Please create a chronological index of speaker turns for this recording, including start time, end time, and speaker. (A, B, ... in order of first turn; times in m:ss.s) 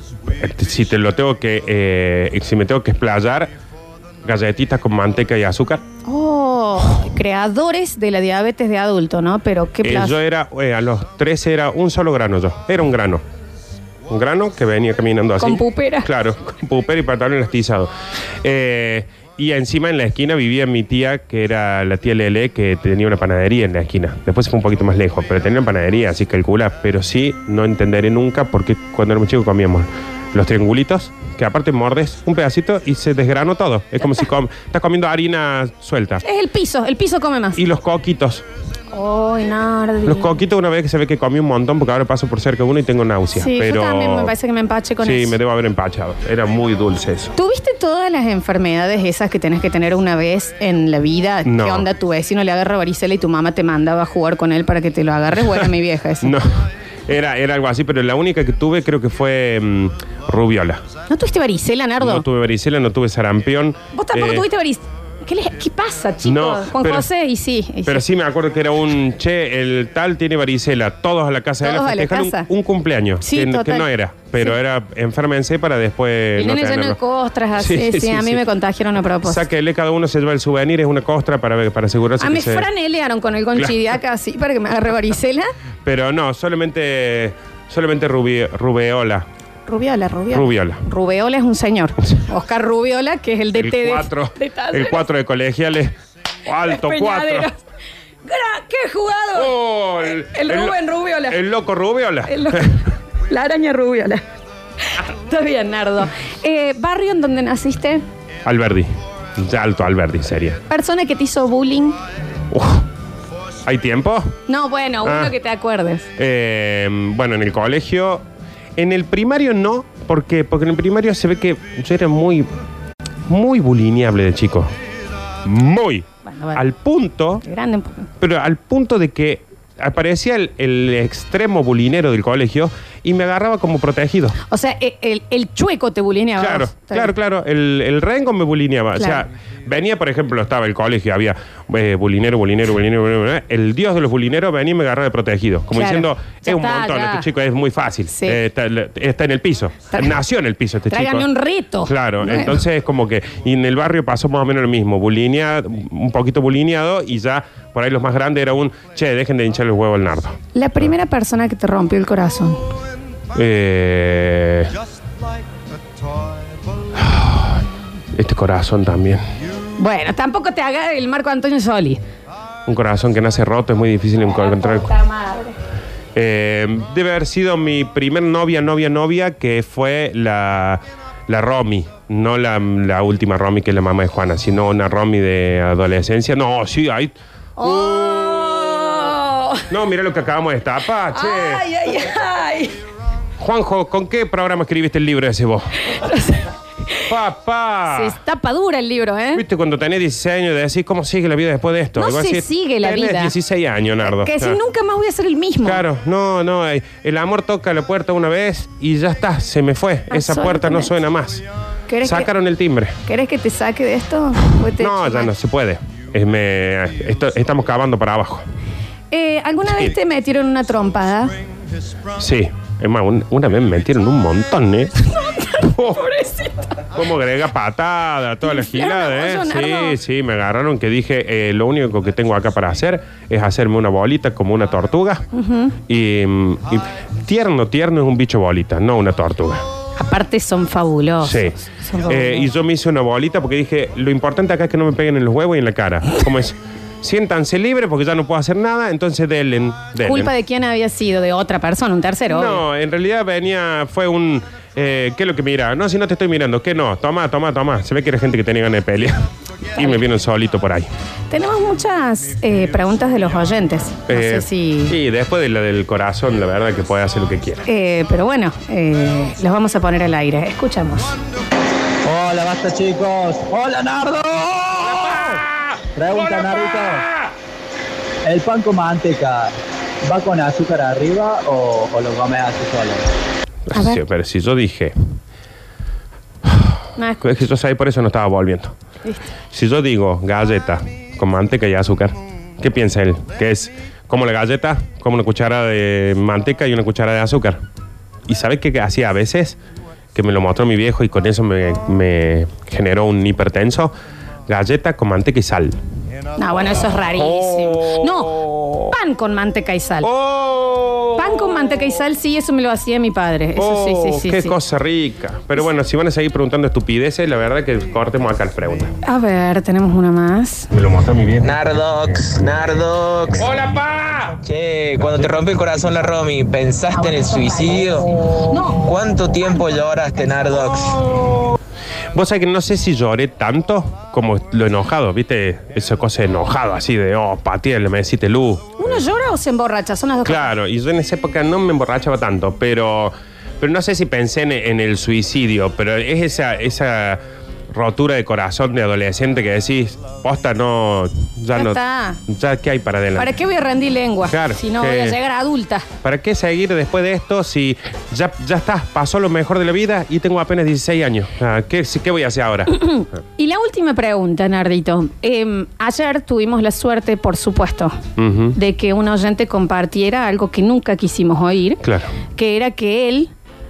0:00.3-0:03.5 A
0:04.2-0:05.8 A
0:06.0-0:10.2 B
0:09.8-0:13.2 A
0:14.1-0:36.2 A
0:15.4-0:16.1 B
0:36.2-0:37.6 B
0:37.6-0:38.4 A
0:38.9-0:40.4 B
0:40.0-0:44.3 A
0:43.4-0:45.4 B
0:45.0-0:47.4 A
0:47.4-0:56.4 B
0:51.4-0:51.9 A
0:56.2-1:00.8 A
1:01.1-1:02.2 B
1:02.0-1:04.5 A
1:03.9-1:08.0 B
1:06.2-1:07.1 A
1:07.9-1:17.0 A
1:11.6-1:12.5 B
1:13.2-1:13.9 B
1:16.4-1:19.4 B
1:17.6-1:18.4 A
1:19.2-1:22.7 A
1:22.2-1:25.5 B
1:25.8-1:29.3 A
1:29.7-1:35.0 B
1:30.3-1:30.8 A
1:33.6-1:36.0 A
1:36.5-1:37.5 A
1:36.6-1:37.6 B
1:38.2-1:41.4 B
1:39.4-1:42.8 A
1:42.3-1:44.3 B
1:44.8-1:48.0 B
1:48.5-1:50.6 A
1:50.7-1:52.0 B
1:52.5-1:52.9 A
1:53.6-1:54.4 A
1:54.5-1:56.1 B
1:55.0-1:55.4 A
1:56.2-1:58.2 A
1:58.8-2:02.5 A
2:03.3-2:04.7 A
2:05.4-2:07.4 A
2:06.2-2:06.6 B
2:07.4-2:08.1 B
2:08.2-2:14.4 A
2:14.5-2:17.1 B
2:16.4-2:31.3 A
2:19.0-2:19.2 B
2:25.7-2:27.3 B
2:28.1-2:28.4 B
2:30.9-2:32.6 B
2:31.9-2:40.4 A
2:40.6-2:42.6 B
2:43.3-2:44.8 A
2:46.9-2:49.2 A
2:49.8-2:52.0 B
2:52.7-2:55.0 A
2:54.3-2:55.6 B
2:56.2-3:08.7 A
3:07.6-3:09.7 B
3:09.7-3:11.7 A
3:11.1-3:12.8 B
3:13.4-3:15.8 A
3:15.9-3:17.1 B
3:17.1-3:18.2 A
3:17.9-3:19.4 B
3:19.4-3:24.6 A
3:22.0-3:23.3 B
3:24.0-3:25.8 B
3:25.6-3:31.4 A
3:30.1-3:30.9 B
3:31.9-3:32.3 B
3:32.0-3:33.0 A
3:33.0-3:35.3 B
3:34.8-3:38.4 A
3:39.1-3:41.4 B
3:42.2-3:45.0 A
3:45.0-3:46.9 B
3:45.6-3:46.1 A
3:46.9-3:55.2 A
3:48.4-3:50.0 B
3:55.3-3:55.8 B
3:55.9-3:59.6 A
4:00.0-4:02.5 B
4:01.2-4:10.3 A
4:10.0-4:12.6 B
4:12.3-4:20.9 A
4:21.3-4:25.0 B
4:24.1-4:27.7 A
4:27.7-4:31.2 B
4:32.0-4:34.9 C
4:34.9-4:35.5 A
4:36.0-4:37.1 C
4:38.2-4:39.5 C
4:40.0-4:43.1 C
4:43.7-4:45.2 A
4:43.7-4:44.0 B
4:46.4-4:48.8 A
4:47.0-4:47.3 B
4:49.5-4:57.6 A
4:58.3-4:59.6 A
5:00.2-5:03.9 A
5:04.5-5:05.8 A
5:06.4-5:10.1 B
5:07.1-5:09.0 A
5:10.0-5:11.9 A
5:11.2-5:14.6 B
5:13.6-5:18.9 A
5:19.0-5:20.7 B
5:20.7-5:21.4 A
5:21.4-5:23.5 D
5:23.4-5:24.4 A
5:24.4-5:31.1 D
5:32.1-5:39.0 A
5:38.8-5:40.5 B
5:40.2-5:53.4 A
5:51.5-5:52.2 B
5:53.2-5:55.9 B
5:54.3-5:55.2 A
5:56.0-6:02.9 A
6:02.7-6:08.0 B
6:08.2-6:08.6 A
6:08.6-6:11.8 B
6:11.8-6:12.1 A
6:12.4-6:13.3 B